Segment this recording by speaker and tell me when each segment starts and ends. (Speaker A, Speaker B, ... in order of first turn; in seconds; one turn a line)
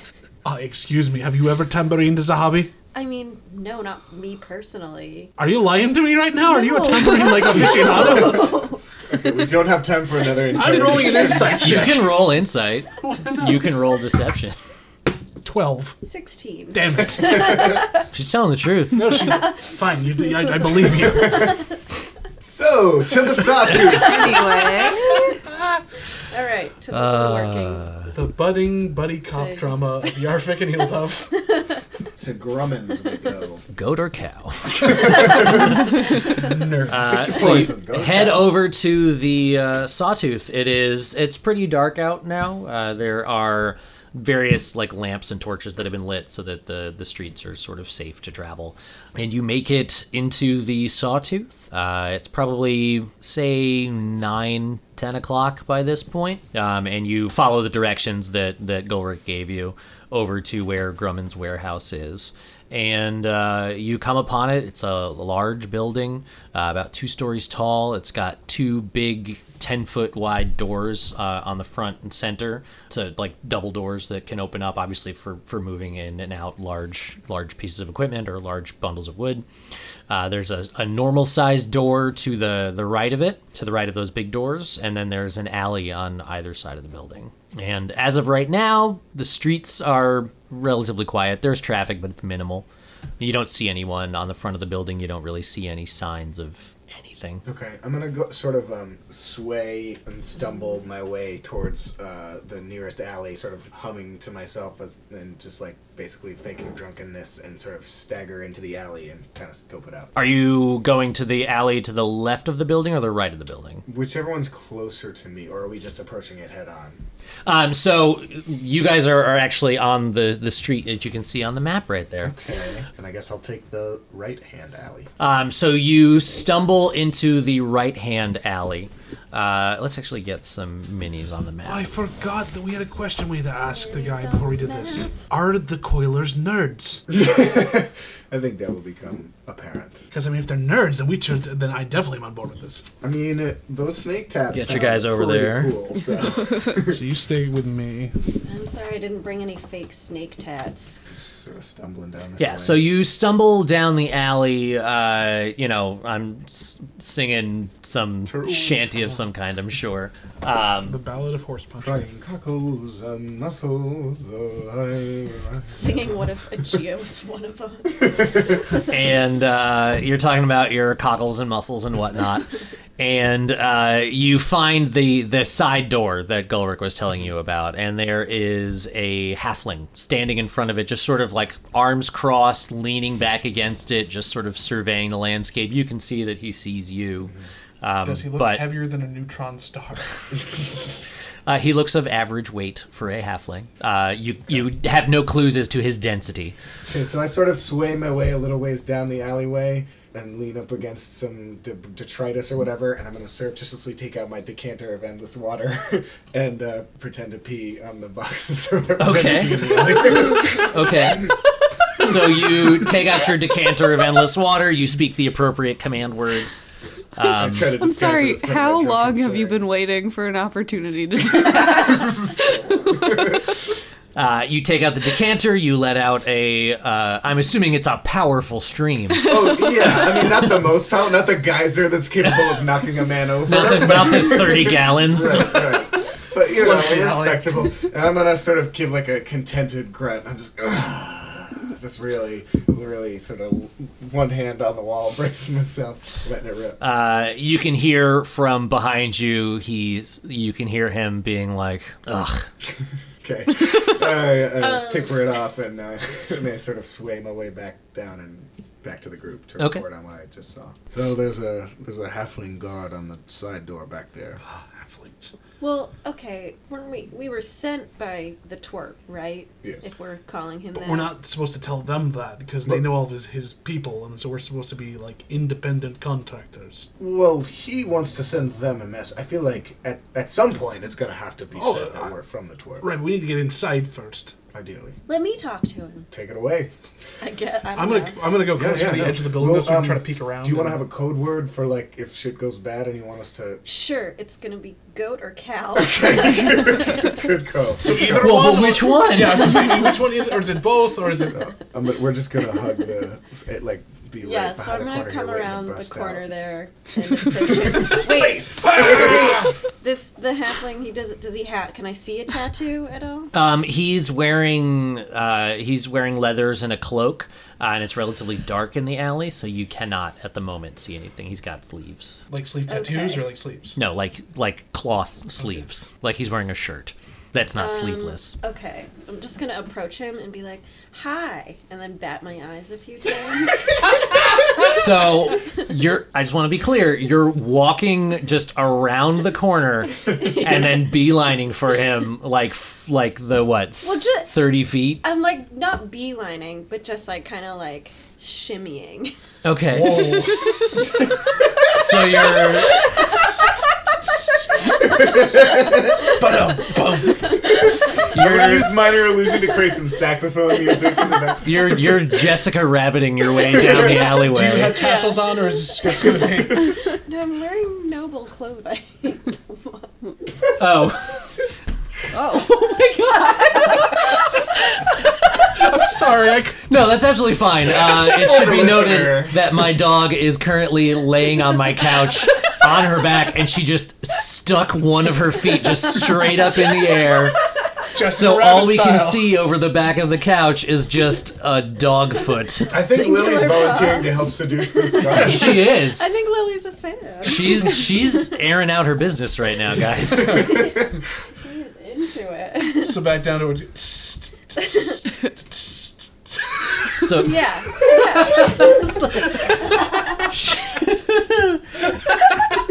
Speaker A: 0.4-2.7
Speaker B: 2.9-5.3
Speaker A: 5.4-8.7
Speaker C: 6.5-7.2
Speaker B: 7.1-8.8
Speaker D: 9.1-12.0
Speaker A: 10.5-12.2
Speaker E: 11.3-14.6
Speaker A: 15.4-16.0
Speaker B: 16.0-17.9
Speaker A: 16.7-17.7
Speaker E: 18.1-19.2
Speaker A: 18.9-21.5
Speaker B: 20.5-21.6
Speaker D: 21.1-21.5
Speaker D: 22.4-24.5
Speaker B: 23.7-25.4
Speaker C: 23.9-25.1
Speaker B: 26.3-27.9
Speaker E: 26.9-28.1
Speaker A: 28.1-31.4
Speaker B: 29.3-30.2
Speaker B: 31.4-31.6
Speaker D: 32.2-33.6
Speaker E: 33.7-35.5
Speaker D: 35.0-35.4
Speaker A: 36.3-37.7
Speaker E: 36.9-79.4
Speaker D: 37.0-38.6
Speaker E: 80.1-92.7
Speaker E: 93.2-97.4
Speaker D: 97.4-110.1
Speaker E: 110.1-113.8
Speaker D: 113.9-117.0
Speaker E: 117.5-122.3
Speaker D: 122.2-125.1
Speaker E: 125.2-131.9
Speaker A: 131.6-137.1
Speaker B: 133.6-135.1
Speaker D: 137.1-140.0
Speaker A: 140.1-142.8
Speaker D: 143.0-147.0
Speaker E: 144.5-145.7
Speaker A: 146.7-148.1
Speaker B: 148.4-151.0
Speaker D: 151.1-152.8
Speaker E: 152.4-161.0
Speaker D: 158.3-158.8
Speaker A: 160.8-162.1
Speaker D: 161.8-165.9
Speaker B: 165.7-168.8
Speaker E: 168.9-188.7
Speaker A: 188.0-190.2
Speaker E: 191.4-196.5
Speaker D: 196.9-210.7
Speaker E: 209.0-211.3
Speaker E: 212.0-216.5
Speaker E: 217.2-217.7
Speaker D: 217.2-219.6
Speaker C: 217.8-222.4
Speaker D: 221.5-223.4
Speaker C: 222.9-223.3
Speaker E: 224.1-229.6
Speaker D: 229.2-246.8
Speaker E: 233.4-235.7
Speaker A: 236.5-237.7
Speaker E: 246.8-252.4
Speaker D: 253.2-264.4
Speaker B: 254.6-255.2
Speaker E: 259.6-259.8
Speaker A: 264.4-265.3
Speaker B: 265.6-271.1
Speaker A: 270.7-276.9
Speaker D: 277.0-282.9
Speaker A: 281.5-282.1
Speaker A: 282.8-284.4
Speaker D: 284.5-284.9
Speaker B: 285.1-286.1
Speaker D: 286.1-286.7
Speaker B: 287.2-288.2
Speaker A: 287.7-290.8
Speaker D: 288.5-293.6
Speaker B: 293.6-297.2
Speaker D: 295.7-298.8
Speaker A: 297.8-301.5
Speaker E: 298.0-299.9
Speaker B: 301.1-301.5
Speaker D: 301.3-306.2
Speaker B: 304.2-313.3
Speaker D: 307.3-309.4
Speaker A: 308.8-309.4
Speaker E: 313.3-322.2
Speaker A: 322.3-323.8
Speaker B: 322.7-323.3
Speaker E: 323.7-328.4
Speaker B: 327.6-334.7
Speaker E: 334.7-345.0
Speaker B: 343.8-344.3
Speaker B: 345.0-349.1
Speaker E: 349.4-350.3
Speaker A: 349.7-350.7
Speaker B: 350.4-350.8
Speaker E: 351.7-353.0
Speaker B: 352.7-353.5
Speaker A: 353.0-358.5
Speaker B: 354.5-357.9
Speaker D: 355.1-355.6
Speaker E: 358.0-359.0
Speaker D: 358.1-361.9
Speaker B: 359.4-359.8
Speaker B: 360.7-361.2
Speaker E: 361.4-364.8
Speaker A: 363.9-366.8
Speaker B: 364.7-370.1
Speaker E: 370.6-371.2
Speaker B: 372.1-374.1
Speaker A: 375.5-376.6
Speaker E: 376.7-387.4
Speaker D: 377.8-379.4
Speaker A: 387.9-389.4
Speaker E: 388.1-392.7
Speaker B: 392.7-397.8
Speaker D: 392.7-395.6
Speaker E: 395.1-396.0
Speaker A: 395.2-395.5
Speaker E: 397.2-400.7
Speaker B: 400.3-400.9
Speaker B: 401.4-403.1
Speaker A: 402.8-407.3
Speaker B: 404.6-405.0
Speaker E: 407.0-407.4
Speaker B: 407.2-408.9
Speaker E: 408.6-409.3
Speaker E: 410.3-411.6